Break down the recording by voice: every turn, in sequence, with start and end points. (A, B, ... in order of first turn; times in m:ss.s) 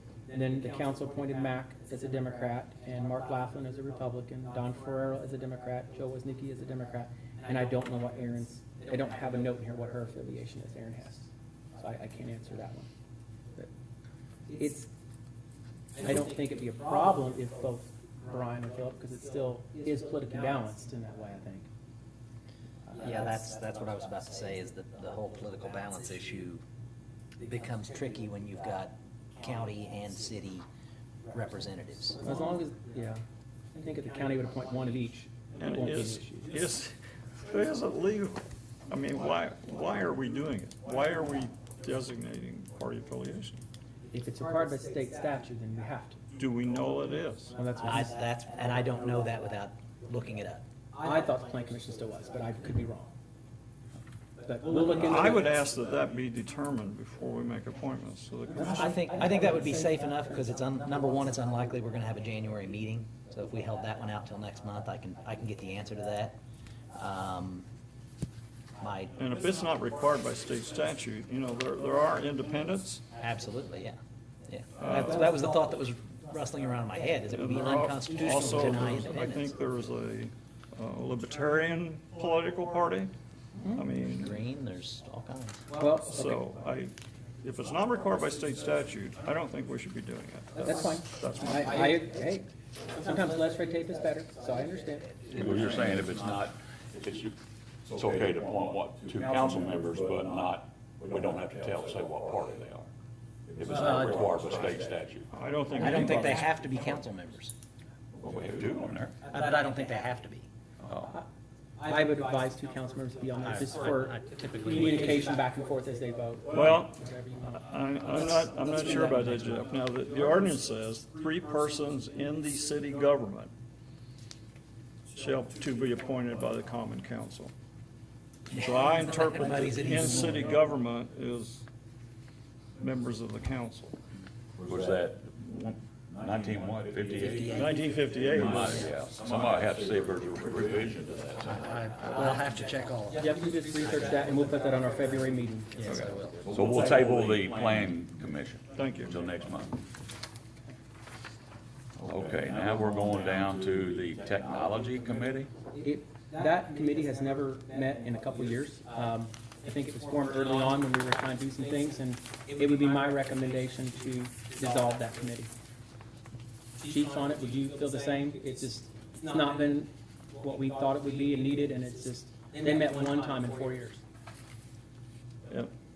0:00.3-0:12.9 A
0:14.5-0:14.9 A
0:15.9-0:21.7 A
0:23.0-0:26.6 B
0:27.4-0:30.6 B
0:31.3-0:32.2 B
0:32.2-0:33.2 A
0:33.7-0:36.5 A
0:35.6-0:43.6 C
0:44.1-0:46.2 A
0:46.4-0:47.5 C
0:47.6-0:48.1 A
0:47.8-0:50.6 B
0:51.0-0:53.1 A
0:54.4-0:55.5 A
0:54.7-0:59.0 C
0:58.6-0:59.9 A
0:58.6-1:06.4 B
1:06.9-1:07.7 B
1:08.8-1:09.1 B
1:09.2-1:13.0 C
1:13.2-1:19.5 B
1:14.8-1:15.2 C
1:17.3-1:23.1 C
1:23.7-1:24.4 C
1:24.0-1:25.6 B
1:25.8-1:26.4 A
1:26.0-1:31.8 C
1:30.6-1:35.4 A
1:35.3-1:37.4 D
1:35.4-1:36.2 B
1:37.9-1:42.9 D
1:43.5-1:45.3 D
1:43.7-1:44.5 B
1:45.3-1:46.5 C
1:45.8-1:47.5 B
1:48.2-1:49.2 D
1:49.2-1:50.5 B
1:50.8-1:51.2 A
1:51.8-1:57.6 A
1:53.7-1:55.1 B
1:56.5-2:03.5 C
1:58.8-1:59.3 B
2:05.1-2:07.5 C
2:08.5-2:11.6 C
2:08.5-2:10.6 B
2:12.8-2:14.0 C
2:14.6-2:17.6 D
2:17.2-2:17.8 B
2:17.4-2:18.9 C
2:18.2-2:21.8 D
2:18.5-2:18.9 B
2:21.4-2:23.2 B
2:23.2-2:26.1 A
2:25.8-2:27.0 B
2:26.5-2:29.8 D
2:28.7-2:29.1 C
2:32.0-2:35.5 D
2:35.8-2:45.5 A
2:46.8-2:54.0 A